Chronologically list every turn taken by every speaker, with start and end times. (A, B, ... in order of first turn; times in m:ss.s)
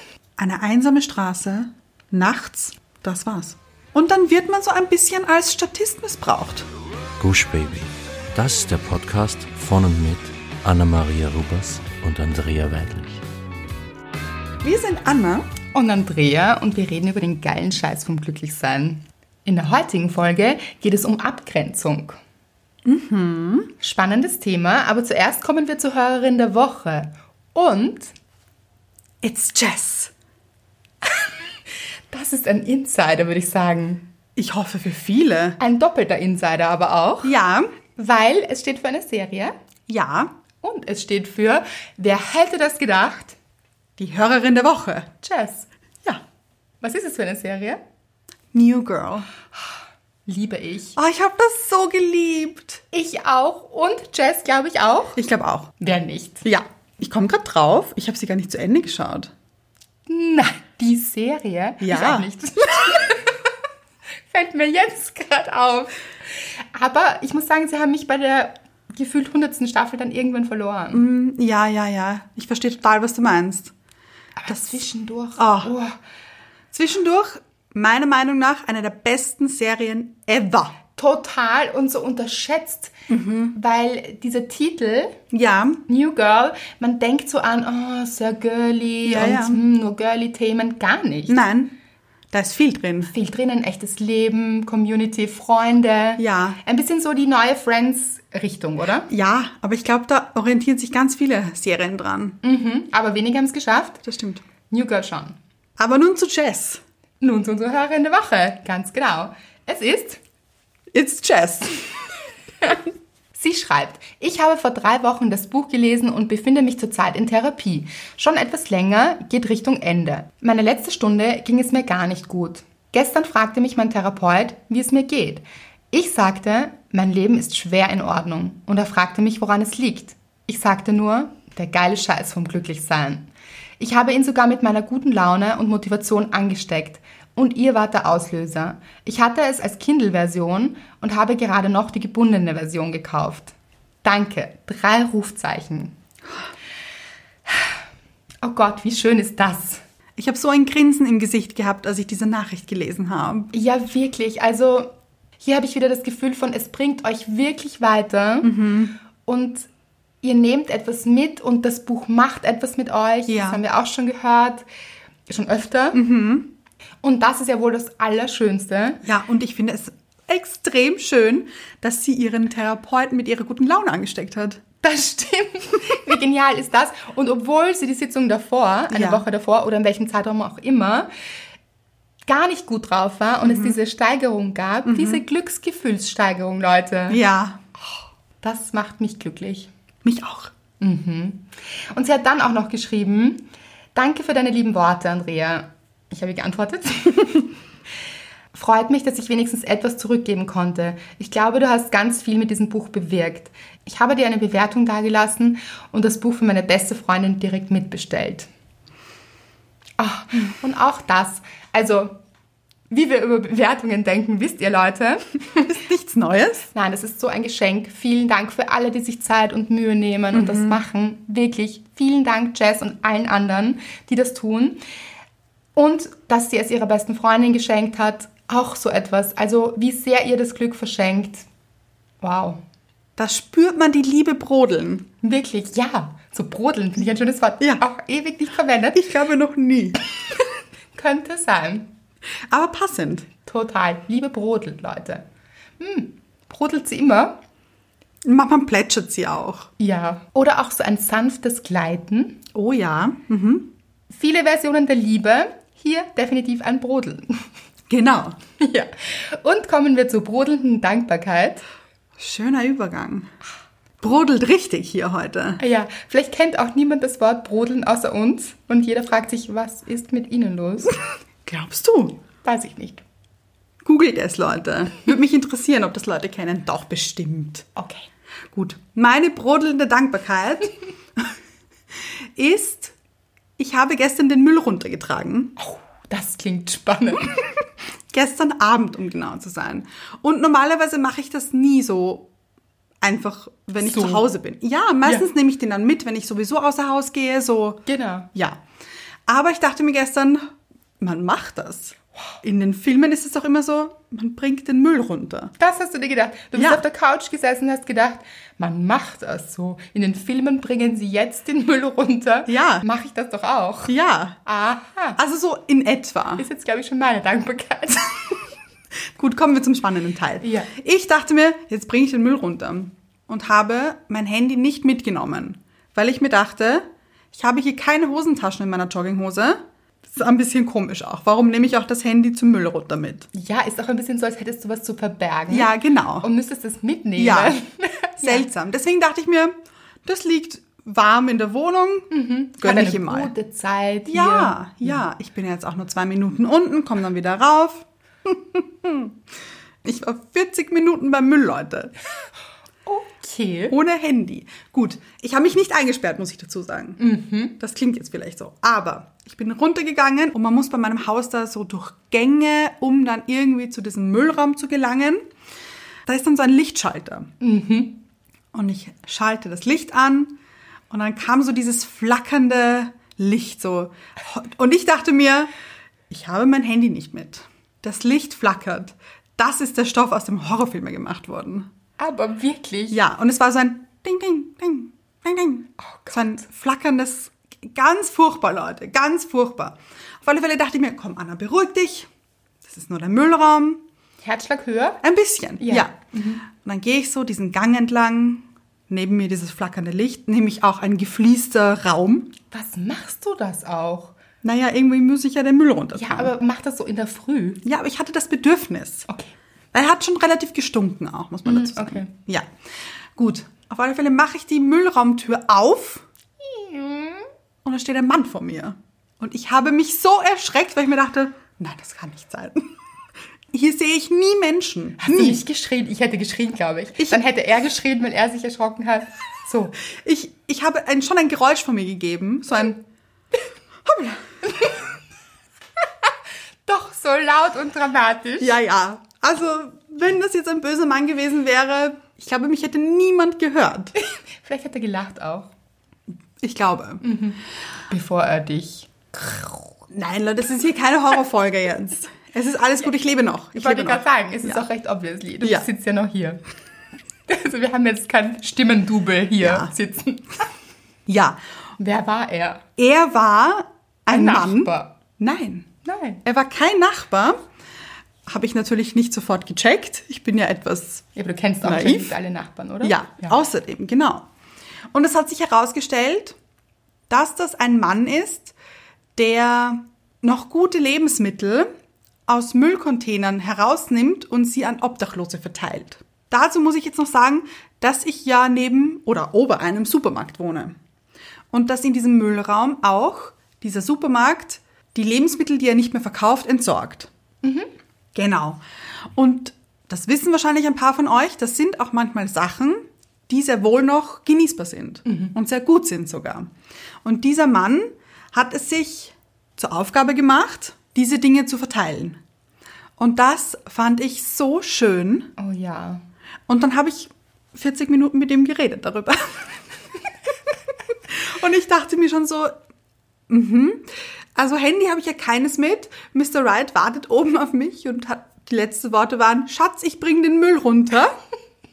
0:00.4-0:06.7 A
0:07.2-0:13.2 B
0:14.6-0:15.5 A
0:15.7-0:22.2 C
0:22.8-0:23.7 A
0:23.8-0:28.1 C
0:29.2-0:30.1 A
0:32.1-0:34.0 C
0:34.4-0:35.6 A
0:35.6-0:37.3 C
0:37.2-0:37.7 A
0:38.0-0:39.5 C
0:39.9-0:40.3 A
0:40.6-0:43.4 C
0:44.0-0:45.1 A
0:45.2-0:45.7 C
0:46.8-0:47.8 C
0:48.5-0:49.3 A
0:50.3-0:51.0 C
0:51.0-0:52.8 A
0:52.9-0:55.2 C
0:55.2-0:55.7 A
0:55.8-0:56.4 C
0:56.4-0:59.3 A
1:00.1-1:03.5 C
1:01.8-1:02.3 A
1:04.3-1:11.0 C
1:10.9-1:13.7 A
1:14.4-1:16.0 C
1:14.5-1:14.7 A
1:15.4-1:15.7 A
1:16.7-1:20.7 A
1:21.0-1:22.9 C
1:23.1-1:23.5 A
1:23.5-1:25.2 C
1:25.3-1:25.8 A
1:25.9-1:31.4 C
1:29.0-1:29.6 A
1:31.3-1:31.7 A
1:32.3-1:33.1 A
1:33.1-1:39.1 C
1:36.2-1:36.6 A
1:39.1-1:42.4 A
1:42.4-1:44.0 C
1:44.0-1:44.4 A
1:44.7-1:45.4 C
1:45.8-1:46.8 A
1:47.2-1:50.2 C
1:50.9-1:51.8 A
1:53.3-2:13.3 C
2:13.8-2:23.5 C
2:24.0-2:25.9 C
2:28.4-2:29.8 C
2:30.2-2:33.5 A
2:33.5-2:38.5 C
2:38.4-2:38.9 A
2:39.2-2:39.7 C
2:40.2-2:44.6 C
2:43.3-2:43.6 A
2:45.3-2:46.0 C
2:45.9-2:46.5 A
2:47.0-2:49.0 C
2:49.0-2:54.6 A
2:54.8-3:01.1 C
2:58.9-2:59.2 A
3:02.3-3:07.2 C
3:03.4-3:03.8 A
3:04.8-3:05.2 A
3:07.1-3:07.6 A
3:08.4-3:09.7 C
3:10.0-3:10.5 A
3:10.8-3:17.5 C
3:18.5-3:28.5 C
3:30.0-3:32.1 C
3:32.9-3:35.8 C
3:35.7-3:36.7 A
3:36.7-3:44.8 C
3:40.3-3:40.8 A
3:45.8-3:51.4 C
3:52.2-3:52.6 C
3:53.2-3:55.1 A
3:55.2-3:59.1 C
3:58.9-4:00.0 A
4:00.9-4:01.9 C
4:02.5-4:03.3 A
4:03.4-4:05.2 C
4:05.8-4:07.4 C
4:08.2-4:09.7 A
4:09.8-4:12.4 C
4:12.5-4:13.7 A
4:14.1-4:17.4 C
4:17.9-4:18.4 A
4:18.6-4:21.6 C
4:22.2-4:23.3 A
4:24.0-4:25.6 A
4:25.6-4:31.0 C
4:31.4-4:32.2 A
4:32.4-4:33.0 C
4:33.8-4:37.7 A
4:37.8-4:38.1 C
4:38.5-4:41.3 A
4:42.3-4:42.9 A
4:43.6-4:45.5 A
4:45.6-4:47.5 C
4:48.1-4:52.3 A
4:53.0-4:58.6 A
4:53.8-4:54.3 C
4:57.9-4:58.3 C
4:59.3-5:00.5 A
5:01.0-5:05.5 A
5:05.6-5:15.2 C
5:06.5-5:06.8 A
5:12.5-5:12.8 A
5:13.9-5:14.4 A
5:15.2-5:16.4 A
5:16.4-5:18.4 C
5:19.1-5:33.3 A
5:20.4-5:20.7 C
5:33.3-5:38.5 C
5:35.5-5:36.3 A
5:37.2-5:37.6 A
5:38.2-5:43.3 A
5:42.1-5:45.0 C
5:44.1-5:49.1 A
5:49.8-5:51.9 A
5:52.8-5:53.7 C
5:53.7-5:57.0 A
5:57.0-5:57.5 C
5:57.6-6:05.2 A
6:06.0-6:07.3 A
6:07.4-6:08.0 C
6:08.5-6:10.4 A
6:10.9-6:15.5 A
6:16.1-6:21.7 A
6:22.0-6:23.0 C
6:22.9-6:32.1 A
6:25.8-6:26.4 C
6:32.6-6:33.8 A
6:34.2-6:35.0 C
6:35.0-6:42.3 A
6:35.6-6:36.4 C
6:42.5-6:44.1 C
6:44.4-6:46.3 A
6:45.9-6:47.6 C
6:47.6-6:49.1 A
6:49.1-6:49.3 C
6:49.7-6:52.4 A
6:51.4-6:52.1 C
6:53.2-6:56.0 A
6:56.4-6:57.2 C
6:57.6-7:02.7 A
7:03.5-7:05.4 A
7:05.0-7:09.8 C
7:09.9-7:12.8 A
7:13.8-7:14.4 A
7:16.7-7:18.5 C
7:18.4-7:23.9 A
7:24.0-7:25.5 C
7:26.4-7:27.0 A
7:27.0-7:27.4 C
7:27.9-7:29.4 C
7:29.9-7:34.6 A
7:33.6-7:36.4 C
7:37.3-7:40.5 C
7:39.4-7:39.7 A
7:41.1-7:41.4 A
7:41.8-7:42.6 C
7:42.8-7:45.7 A
7:44.1-7:44.9 C
7:45.8-7:46.2 C
7:46.2-7:47.4 A
7:48.2-7:51.1 A
7:51.1-7:53.4 C
7:51.6-7:52.2 A
7:52.8-7:54.3 A
7:54.9-7:56.4 A
7:57.1-7:58.5 A
7:59.2-8:01.7 A
8:02.3-8:10.8 A
8:11.5-8:17.1 A
8:17.4-8:17.7 C
8:18.1-8:18.6 A
8:19.1-8:26.5 A
8:25.0-8:25.3 C
8:27.0-8:32.2 A
8:33.0-8:35.3 A
8:35.4-8:36.0 C
8:36.5-8:39.5 A
8:41.1-8:42.5 A
8:43.3-8:51.2 A